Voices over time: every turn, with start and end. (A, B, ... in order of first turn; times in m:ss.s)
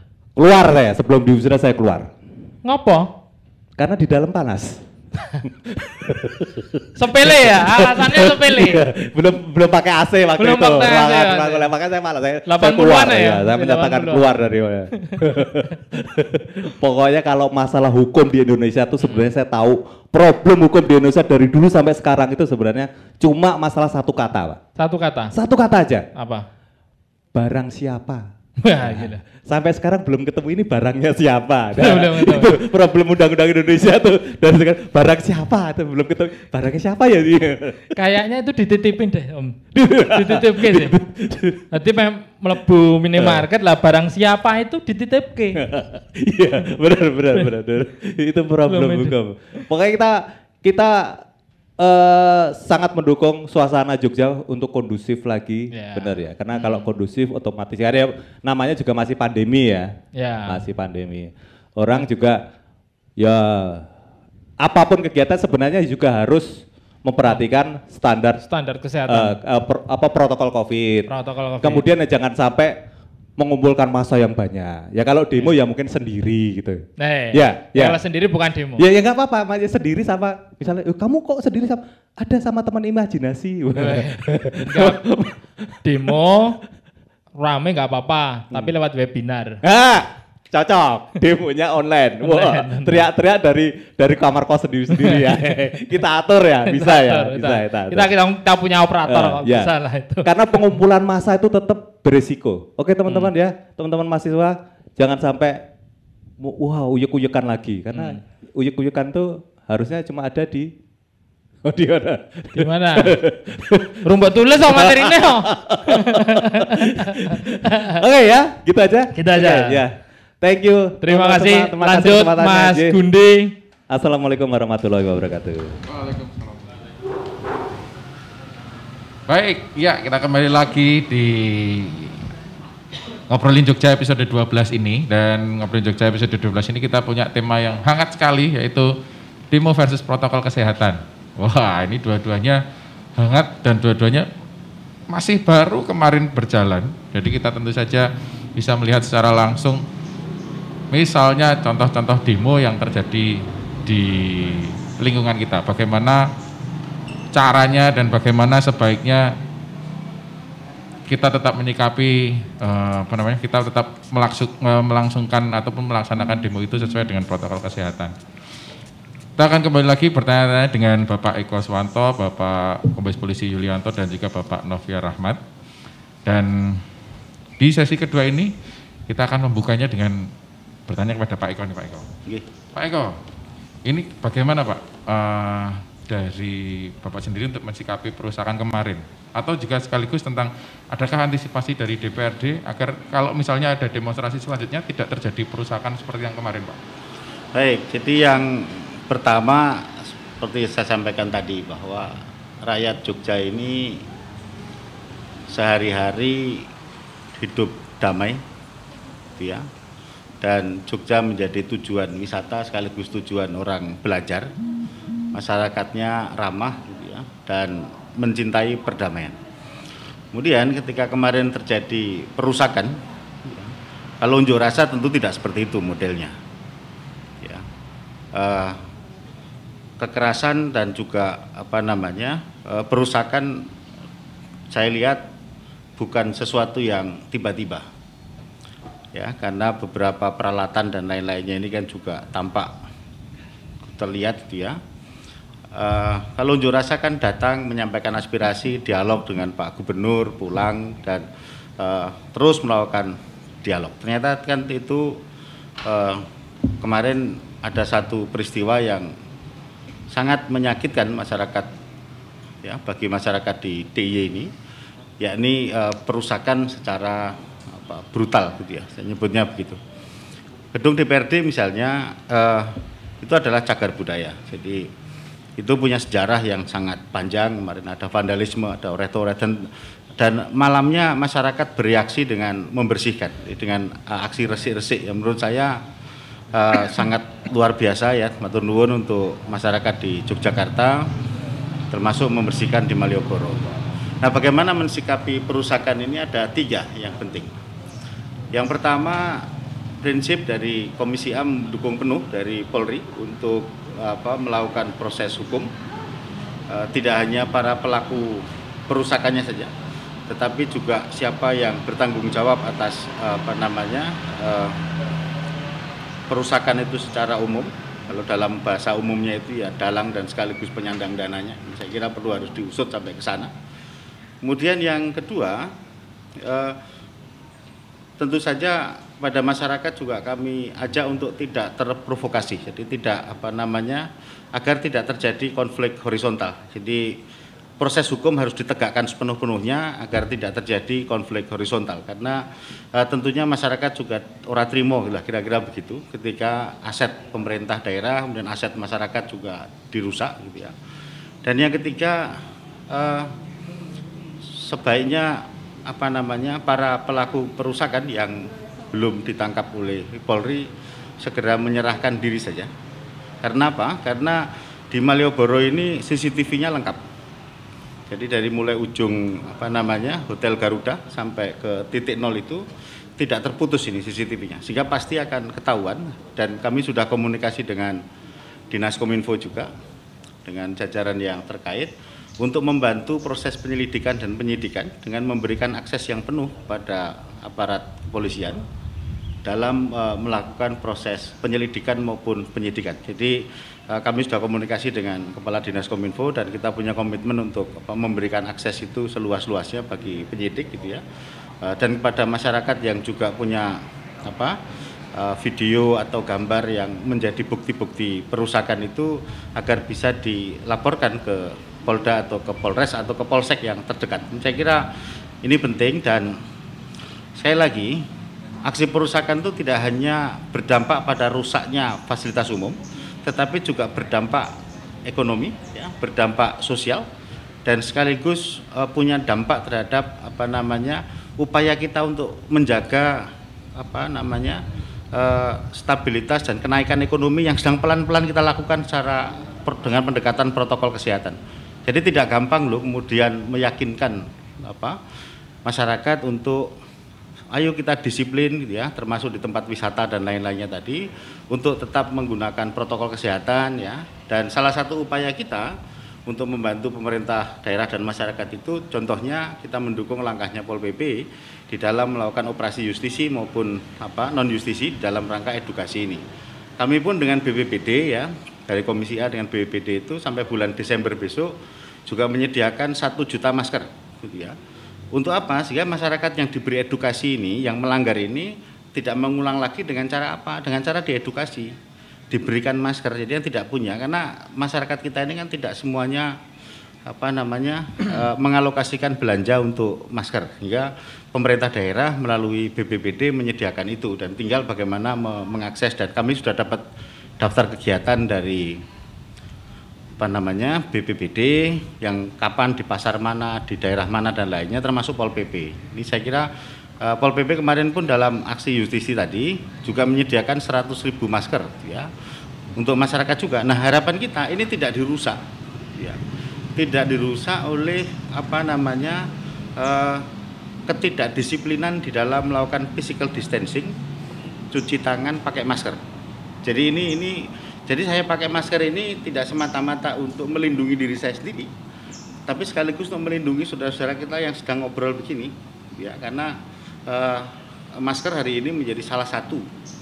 0:00.4-0:02.1 A
0:02.6-0:03.1 B
0:03.8-0:04.8 A
0:05.7-0:24.6 A
0:07.0-0:08.8 B
0:10.4-0:11.7 B
0:12.4-0:14.3 B
0:15.0-0:15.2 B
0:19.0-0:19.3 B
0:24.8-0:25.3 B
0:25.3-0:26.1 A
0:26.2-0:26.4 B
0:27.3-0:28.2 A
0:28.6-0:29.2 B
0:28.8-0:37.9 A
0:31.7-0:32.5 B
0:38.0-0:40.9 B
0:39.7-0:41.6 A
0:41.7-0:45.6 B
0:43.1-0:43.5 A
0:45.6-0:51.2 A
0:48.7-0:49.2 B
0:51.8-0:59.9 A
0:55.7-0:56.9 B
1:00.1-1:00.6 B
1:00.5-1:02.4 A
1:03.2-1:03.8 A
1:04.6-1:08.4 A
1:08.4-1:09.4 B
1:09.1-1:12.8 A
1:11.1-1:11.8 B
1:13.4-1:18.0 A
1:17.0-1:18.8 B
1:18.8-1:26.2 A
1:23.8-1:25.0 B
1:25.8-1:26.6 B
1:27.4-1:29.6 B
1:29.6-1:38.1 A
1:32.2-1:33.0 B
1:35.0-1:35.5 B
1:36.7-1:40.7 B
1:39.0-1:39.7 A
1:40.2-1:45.6 A
1:46.4-1:50.7 A
1:47.9-1:48.2 B
1:51.6-2:03.0 A
1:52.6-1:53.1 B
1:54.0-1:56.6 B
1:57.2-1:58.0 B
1:59.1-1:59.8 B
2:01.0-2:03.6 B
2:03.9-2:05.8 A
2:05.9-2:06.7 C
2:09.3-2:12.2 C
2:13.3-2:18.9 C
2:19.5-2:22.6 C
2:23.2-2:24.3 C
2:25.1-2:29.8 C
2:30.9-2:36.3 C
2:37.3-2:39.3 C
2:41.1-2:48.1 C
2:49.4-2:55.4 C
2:56.2-2:56.8 C
2:57.6-2:58.5 C
2:59.1-3:00.3 C
3:00.9-3:02.0 C
3:02.7-3:03.2 C
3:03.8-3:16.8 C
3:17.5-3:24.0 D
3:25.5-3:26.6 D
3:27.4-3:28.4 D
3:29.4-3:29.7 D
3:30.4-3:34.5 D
3:35.3-3:39.3 D
3:40.3-3:46.4 D
3:47.4-3:47.6 D
3:48.3-3:48.8 D
3:50.0-3:53.7 D
3:54.7-3:55.2 D
3:56.0-3:57.9 D
3:59.1-4:02.8 D
4:03.8-4:04.8 D
4:05.7-4:11.2 D
4:11.8-4:15.2 D
4:15.8-4:16.2 D
4:16.8-4:19.1 D
4:20.1-4:21.7 D
4:22.6-4:24.5 D
4:25.2-4:29.8 D
4:30.7-4:34.9 D
4:35.6-4:45.8 D
4:46.5-4:51.1 D
4:51.9-4:57.6 D
4:58.5-4:59.5 D
5:00.0-5:05.7 D
5:06.7-5:09.7 D
5:10.3-5:14.8 D
5:16.3-5:23.5 D
5:24.4-5:25.7 D
5:26.4-5:26.8 D
5:28.2-5:37.2 D
5:37.8-5:50.7 D
5:51.4-5:53.3 D
5:54.5-6:00.7 D
6:01.2-6:02.7 D
6:03.4-6:07.0 D
6:08.1-6:12.6 D
6:13.2-6:18.0 D
6:18.7-6:19.7 D
6:20.4-6:28.6 D
6:29.4-6:41.0 D
6:41.6-6:44.6 D
6:45.1-6:54.9 D
6:55.4-6:56.3 D
6:57.4-6:58.0 D
6:58.6-7:04.5 D
7:05.0-7:07.0 D
7:07.6-7:25.0 D
7:25.6-7:26.7 D
7:27.5-7:35.7 D
7:36.3-7:46.2 D
7:46.8-7:51.5 D
7:52.1-7:54.6 D
7:55.1-8:01.7 D
8:02.3-8:06.4 D
8:07.1-8:16.8 D
8:17.4-8:18.8 D
8:20.2-8:32.1 D
8:32.7-8:35.4 D
8:36.8-8:40.2 D
8:40.9-8:44.0 D
8:44.7-8:46.0 D
8:46.6-8:51.7 D
8:52.5-8:56.5 D
8:57.1-8:59.6 D